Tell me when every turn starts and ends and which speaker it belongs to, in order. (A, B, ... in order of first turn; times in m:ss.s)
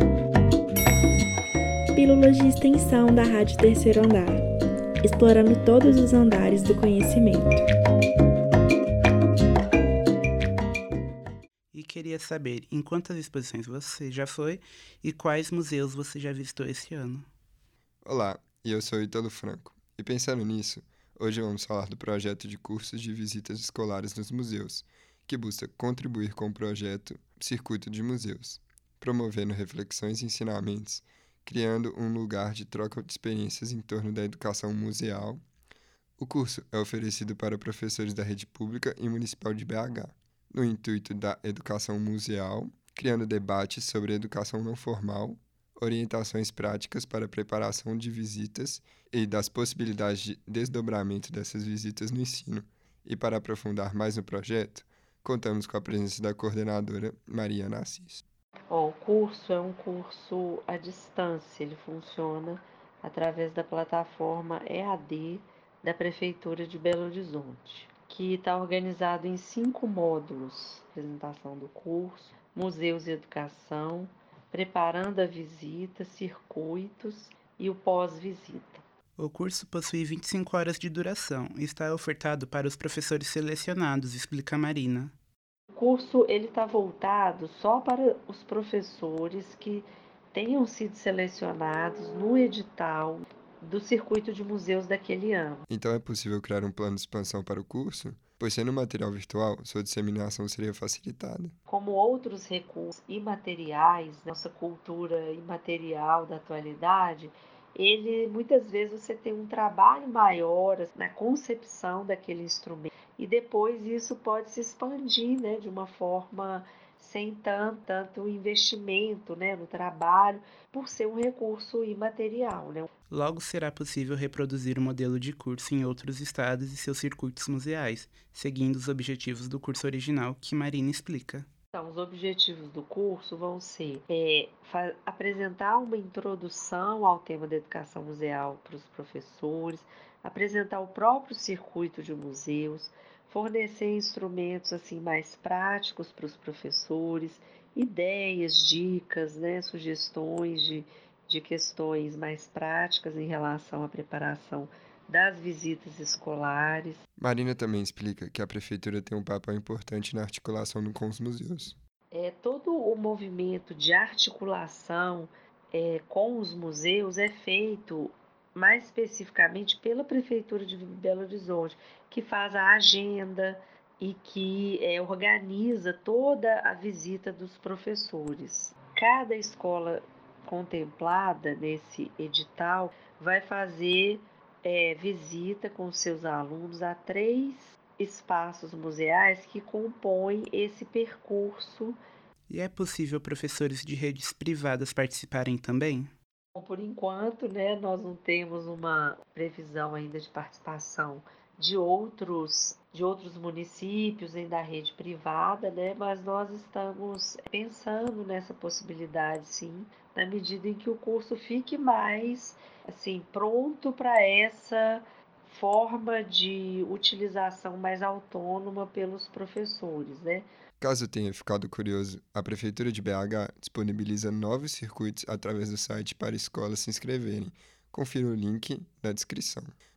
0:01.9-0:04.4 A
0:05.0-0:07.6 A
0:11.7-0:17.3 B
0:18.0-0:35.4 C
0:36.2-0:58.2 C
0:58.7-1:18.8 D
1:19.2-1:25.1 B
1:25.7-1:35.6 D
1:35.7-1:41.5 C
1:41.7-2:02.9 D
2:03.1-2:11.5 B
2:11.7-2:37.0 D
2:37.2-2:41.8 C
2:42.1-3:12.0 D
3:12.5-3:16.1 B
3:16.6-3:40.5 D
3:40.8-3:49.7 C